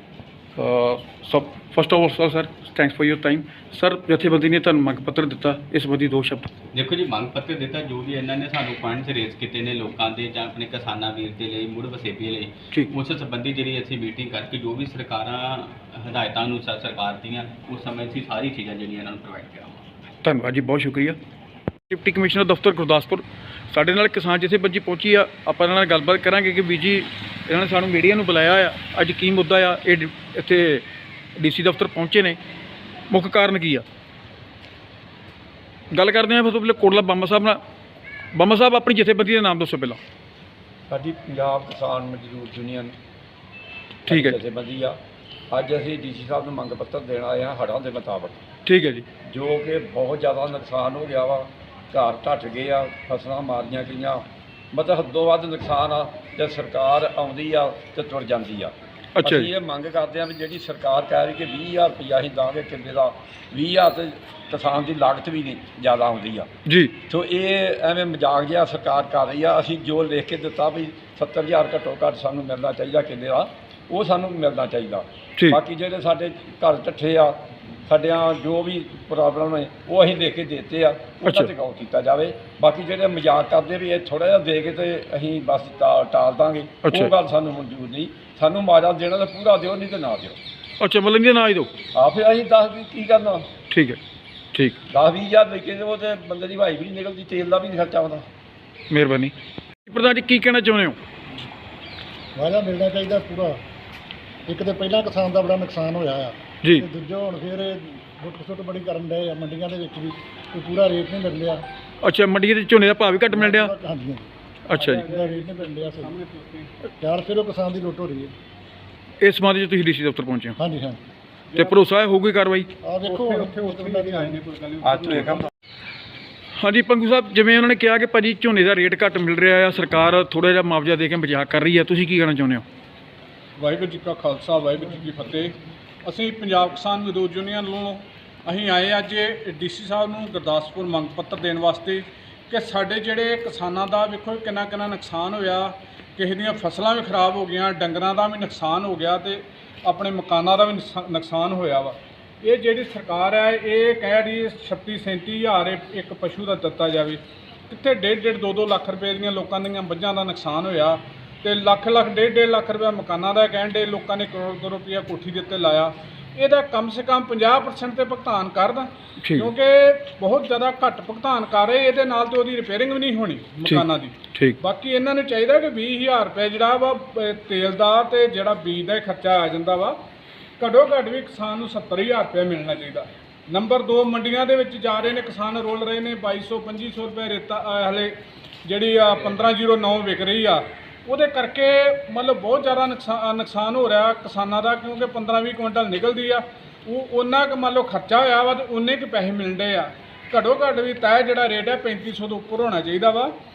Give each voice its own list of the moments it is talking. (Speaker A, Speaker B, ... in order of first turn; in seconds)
Speaker A: 0.6-6.5, 20.2-21.2, 21.9-30.8, 31.4-32.4, 33.1-33.8, 35.9-37.6, 38.3-40.0, 44.1-44.4, 48.6-49.0, 59.1-59.5, 66.7-66.9, 81.2-81.5, 86.8-87.1, 90.8-91.7, 93.7-94.0, 98.9-99.3, 99.9-101.0, 112.0-113.7, 114.7-115.0, 119.2-120.6, 121.5-122.7, 126.6-132.6, 169.2-169.5, 173.6-174.6
Speaker B: 6.7-19.8
Speaker C: 40.9-42.9, 44.0-45.0, 45.5-48.4, 49.2-66.5, 67.1-90.4, 91.9-93.5, 94.9-98.3, 124.8-125.5
Speaker D: 102.3-103.6, 104.5-111.6, 113.3-114.3, 115.0-116.1, 117.0-118.3, 120.6-121.0, 122.8-124.4
Speaker E: 114.8-116.7, 121.5-121.8, 123.0-125.5, 133.6-180.0, 180.6-203.3